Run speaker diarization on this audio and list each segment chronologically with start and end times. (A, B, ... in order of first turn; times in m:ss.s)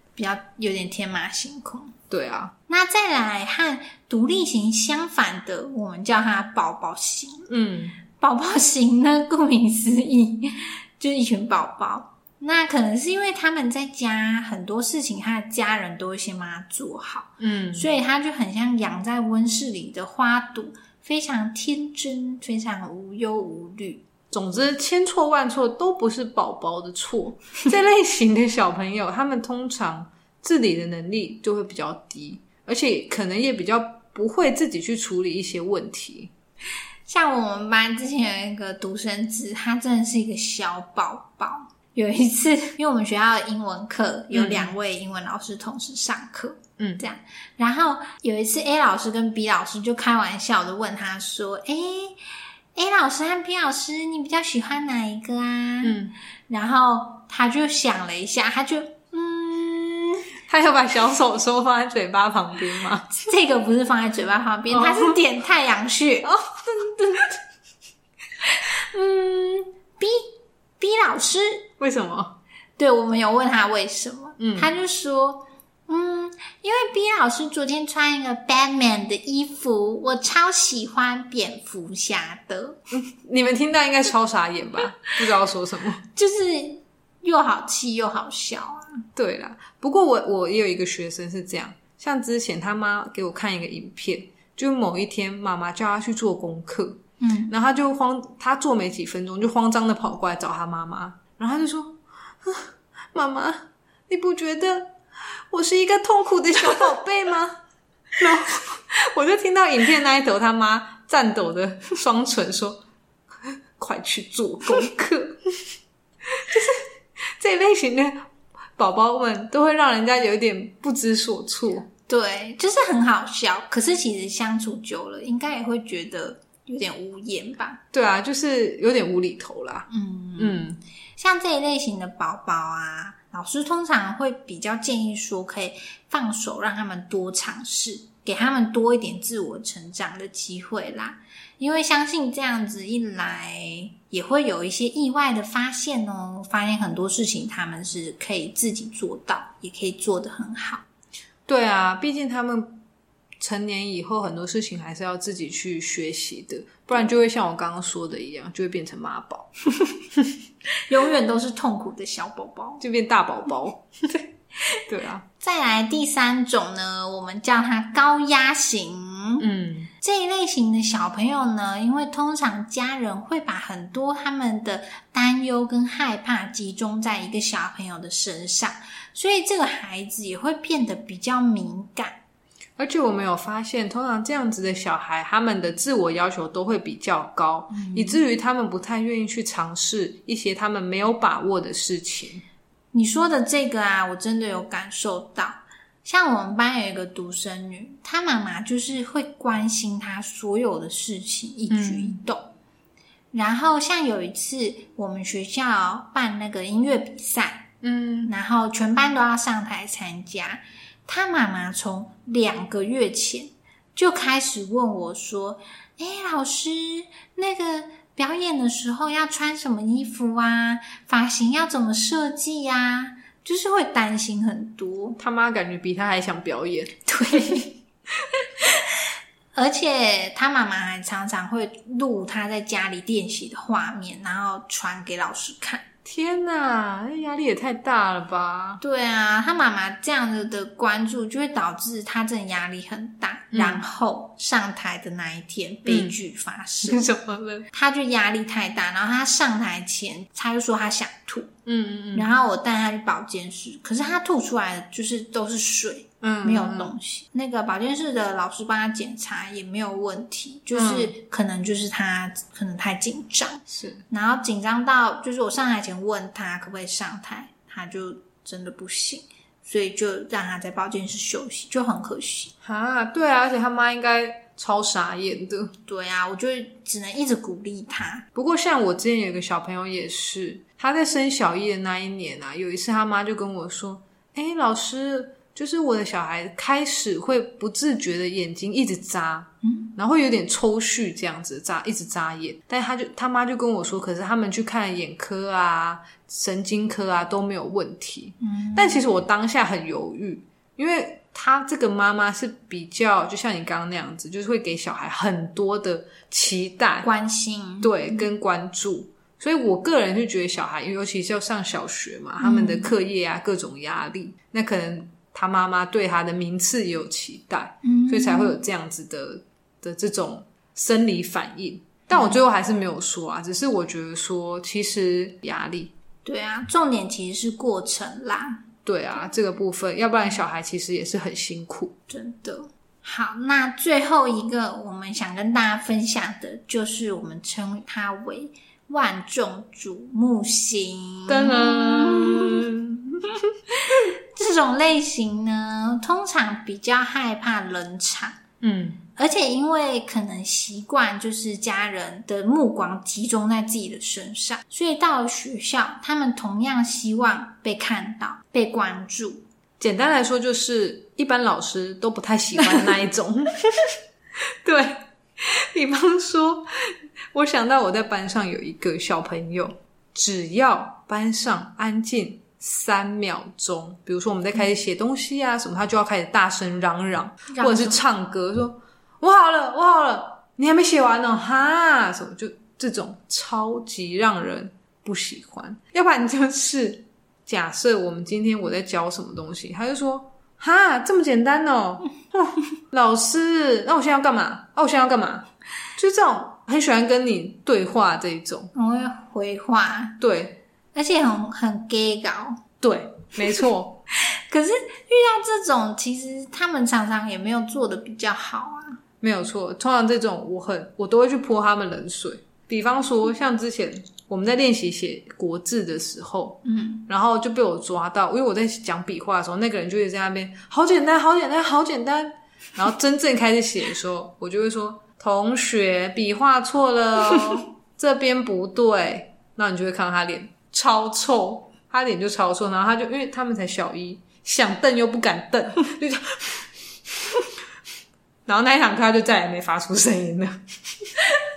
0:00.2-0:01.9 A
0:02.1-0:02.5 B
0:02.7-0:07.5 A
0:07.5-0:08.0 B
0:08.2-0:24.0 A
0:17.4-0:17.9 B
0:24.3-0:36.3 B
0:37.1-0:52.2 A
0:44.3-0:44.7 B
0:52.8-0:56.0 A
0:55.8-0:56.1 B
0:56.5-1:00.3 A
1:00.5-1:03.1 B
1:03.1-1:07.2 A
1:04.7-1:05.2 B
1:06.2-1:07.2 B
1:08.6-1:10.2 A
1:10.8-1:11.7 A
1:11.8-1:12.4 B
1:12.8-1:22.8 A
1:14.4-1:14.7 B
1:22.9-1:26.0 B
1:26.1-1:29.0 A
1:29.2-1:47.6 B
1:37.2-1:37.5 A
1:48.2-1:52.8 B
1:53.4-1:55.4 B
1:56.3-1:56.8 B
1:57.4-1:58.2 B
1:58.8-2:01.9 B
2:02.1-2:07.8 A
2:07.9-2:09.9 B
2:09.9-2:10.6 A
2:10.4-2:10.8 B
2:11.2-2:30.8 A
2:31.5-2:32.8 B
2:33.4-2:39.5 B
2:40.9-2:42.8 A
2:42.8-2:44.2 B
2:44.9-2:45.2 B
2:45.4-2:49.4 A
2:49.4-2:49.9 B
2:50.0-3:02.2 A
3:02.8-3:12.4 B
3:07.7-3:08.2 A
3:12.9-3:22.5 A
3:21.7-3:22.2 B
3:23.3-3:27.7 A
3:27.8-3:28.3 B
3:28.3-3:45.2 A
3:45.2-3:47.0 B
3:47.1-3:47.8 A
3:49.5-3:55.8 A
3:56.0-3:58.8 B
3:58.8-4:07.1 A
4:03.5-4:03.8 B
4:05.8-4:06.1 B
4:06.8-4:07.7 B
4:07.7-4:11.5 A
4:11.6-4:12.3 B
4:12.1-4:32.5 A
4:16.2-4:16.9 B
4:20.7-4:21.1 B
4:23.7-4:24.0 B
4:32.6-4:35.7 B
4:35.8-4:38.2 A
4:38.3-5:07.1 B
4:49.6-4:49.9 A
4:58.4-4:59.0 A
5:07.0-5:07.9 A
5:07.8-5:25.9 B
5:12.4-5:12.9 A
5:17.8-5:18.6 A
5:22.1-5:22.4 A
5:26.2-5:28.6 A
5:28.8-5:31.9 B
5:32.1-5:42.6 A
5:41.3-5:43.4 B
5:43.8-5:48.4 A
5:48.6-5:49.0 B
5:49.2-5:59.4 A
5:59.8-6:03.9 B
6:02.6-6:02.9 A
6:04.6-6:38.7 B
6:17.5-6:18.0 A
6:38.7-6:40.2 A
6:40.2-6:40.6 B
6:40.9-6:42.6 A
6:42.8-6:44.0 B
6:44.5-6:49.0 A
6:49.2-7:16.6 B
6:56.6-6:57.0 A
7:18.4-7:21.2 B